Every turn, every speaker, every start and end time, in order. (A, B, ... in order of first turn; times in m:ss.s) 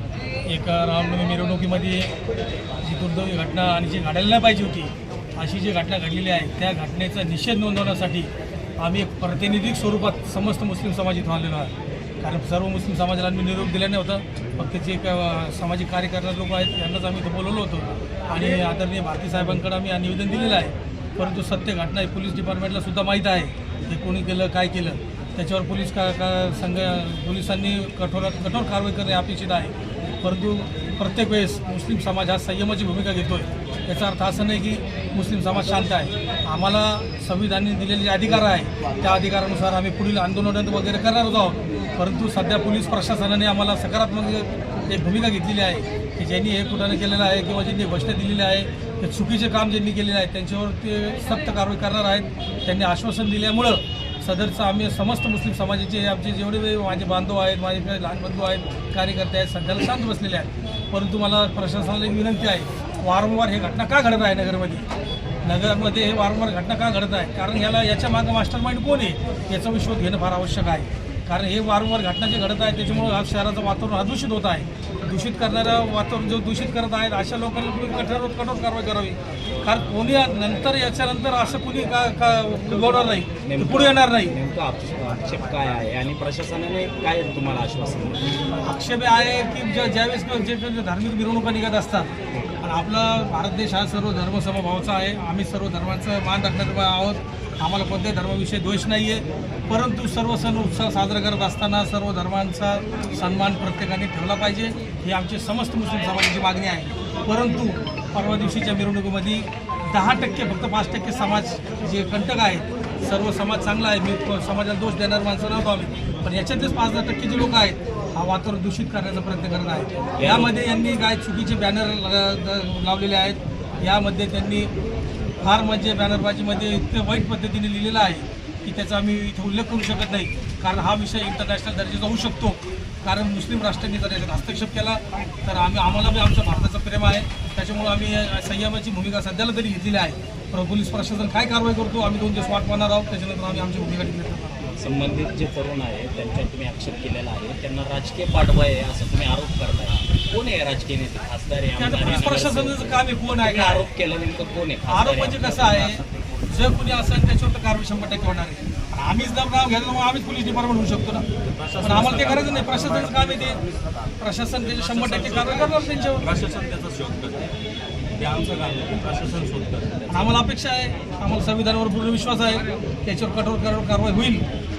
0:00.5-0:02.1 A
0:02.8-0:08.3 A
0:08.8-1:04.8 A
1:05.4-1:24.3 A
1:23.4-1:28.3 B
1:28.6-1:32.1 A
1:32.6-2:04.7 A
2:00.2-2:00.5 B
2:05.4-2:24.7 A
2:24.8-2:36.0 B
2:31.8-2:33.9 A
2:34.9-2:41.2 A
2:41.8-2:43.6 A
2:44.2-2:46.4 A
2:46.4-2:47.4 C
2:48.2-2:49.8 C
2:50.1-2:54.4 A